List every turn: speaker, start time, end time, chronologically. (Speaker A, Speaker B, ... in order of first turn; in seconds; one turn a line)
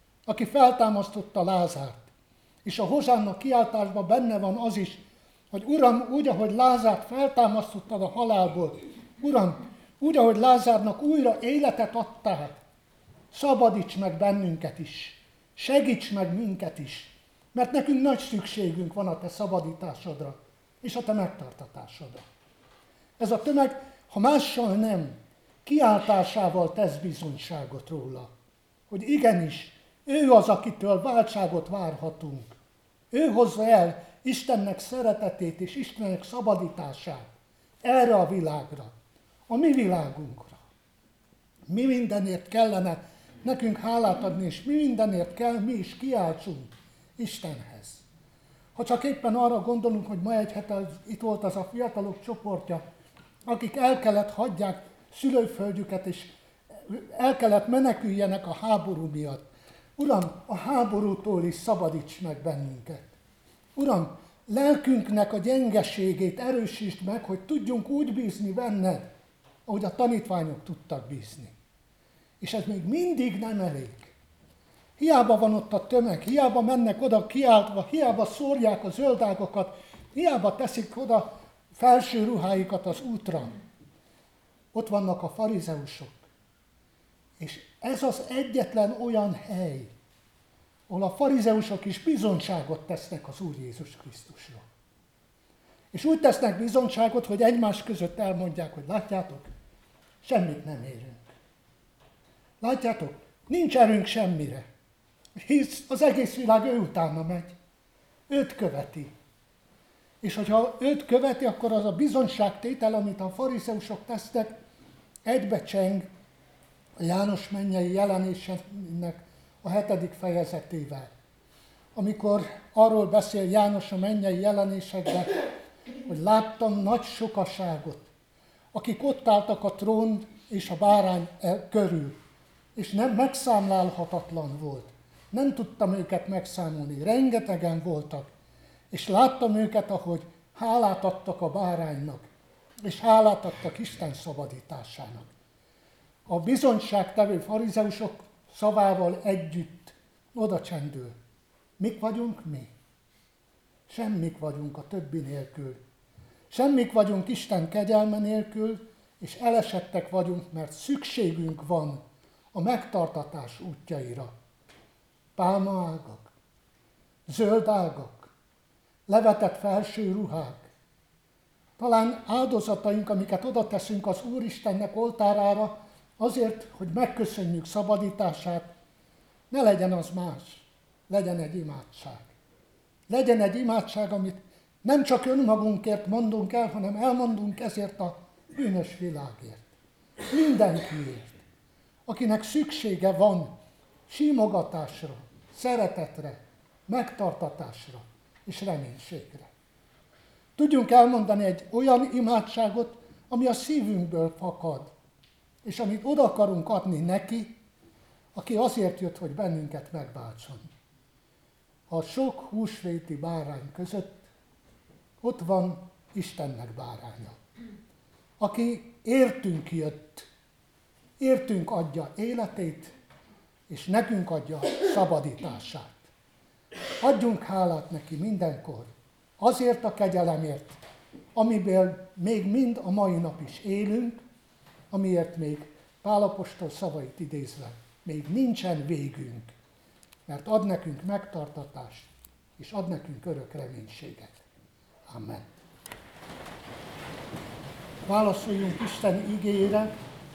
Speaker A: 0.2-2.1
Speaker A: 2.6-12.5
Speaker A: 13.3-22.2
Speaker A: 23.2-28.3
Speaker A: 28.9-32.6
Speaker A: 33.1-38.9
Speaker A: 39.5-40.6
Speaker A: 41.7-48.0
Speaker A: 48.7-52.8
Speaker A: 53.5-63.2
Speaker A: 63.7-69.1
Speaker A: 69.7-71.5
Speaker A: 72.4-74.1
Speaker A: 75.0-83.5
Speaker A: 84.7-86.2
Speaker A: 87.4-89.9
Speaker A: 90.9-94.6
Speaker A: 95.9-99.5
Speaker A: 100.2-101.3
Speaker A: 102.6-104.7
Speaker A: 105.4-107.5
Speaker A: 108.3-109.1
Speaker A: 110.2-114.6
Speaker A: 115.2-116.1
Speaker A: 117.0-121.1
Speaker A: 121.9-125.5
Speaker A: 126.0-128.1
Speaker A: 128.7-132.2
Speaker A: 132.8-138.3
Speaker A: 138.9-142.3
Speaker A: 142.8-145.3
Speaker A: 146.3-151.2
Speaker A: 151.8-152.7
Speaker A: 153.9-155.8
Speaker A: 156.5-162.0
Speaker A: 162.5-164.3
Speaker A: 165.3-166.3
Speaker A: 167.2-168.3
Speaker A: 169.1-170.7
Speaker A: 171.8-178.7
Speaker A: 179.5-182.3
Speaker A: 183.1-189.8
Speaker A: 190.3-191.4
Speaker A: 192.1-193.5
Speaker A: 194.1-199.5
Speaker A: 200.6-204.9
Speaker A: 205.6-207.6
Speaker A: 208.3-210.7
Speaker A: 211.9-214.3
Speaker A: 215.2-217.4
Speaker A: 218.4-220.3
Speaker A: 221.2-222.9
Speaker A: 223.7-226.1
Speaker A: 227.0-230.8
Speaker A: 231.3-234.2
Speaker A: 234.9-239.5
Speaker A: 240.3-244.4
Speaker A: 245.1-245.6
Speaker A: 248.1-249.9